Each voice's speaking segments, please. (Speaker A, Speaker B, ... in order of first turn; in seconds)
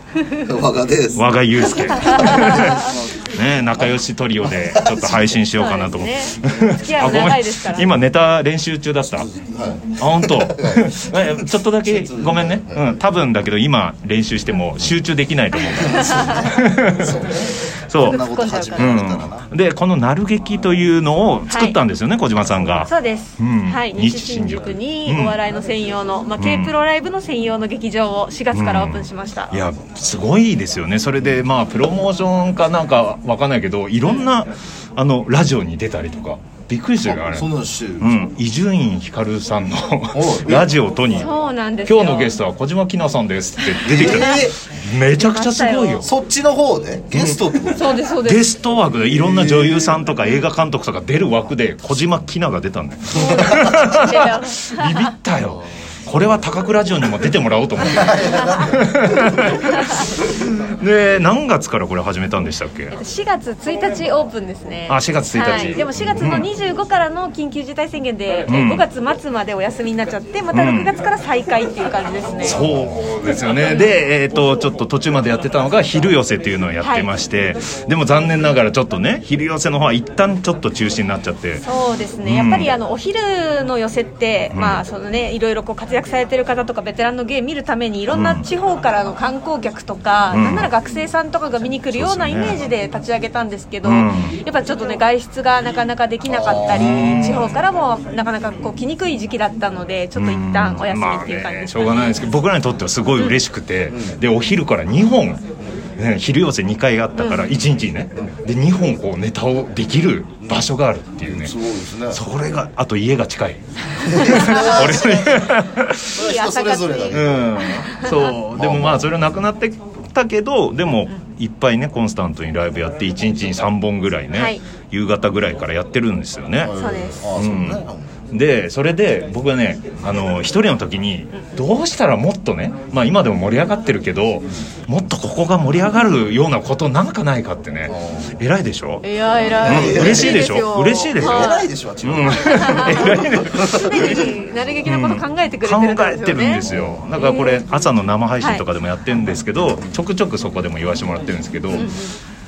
Speaker A: 0.4-1.3, 1.9-3.1, 4.5-5.5, 9.2-13.0, 15.9-19.5, 37.0-38.1, 40.1-40.7, 43.8-44.6, 46.0-47.9, 49.2-49.9, 53.1-53.9, 57.8-59.5, 96.3-97.2, 103.9-104.2, 111.2-112.2, 114.0-115.5, 116.1-117.8, 118.6-119.2, 126.6-128.1, 137.9-138.3, 139.6-140.5, 141.2-144.3, 146.7-147.0
Speaker B: 1.1-9.3, 10.0-18.2, 18.8-25.4, 26.4-26.7, 28.5-37.5, 38.0-41.3, 41.9-46.1, 47.1-47.4, 48.2-63.0, 64.9-66.5, 68.5-68.8, 70.5-70.9, 72.4-81.6, 82.2-82.7, 84.5-84.8, 88.1-88.5, 90.3-90.7, 91.9-92.6, 93.8-94.4, 96.7-97.6, 100.2-105.4, 106.0-111.5, 112.1-116.2, 117.1-126.7, 127.4-139.0, 139.6-144.3, 144.8-152.0
Speaker C: 2.0-2.9, 5.5-7.9, 15.8-16.5, 18.0-19.0, 21.5-21.8, 22.9-29.6, 41.2-42.3, 43.6-44.4, 45.1-46.1, 47.7-48.5, 53.1-55.1, 58.4-58.7, 59.6-60.0, 62.9-72.6, 73.6-73.9, 76.8-77.1, 81.7-102.3, 107.2-107.5, 114.1-115.0, 116.2-118.4, 124.3-124.6, 126.8-127.2, 139.0-141.7, 142.3-146.6, 147.2-147.6, 151.7-152.2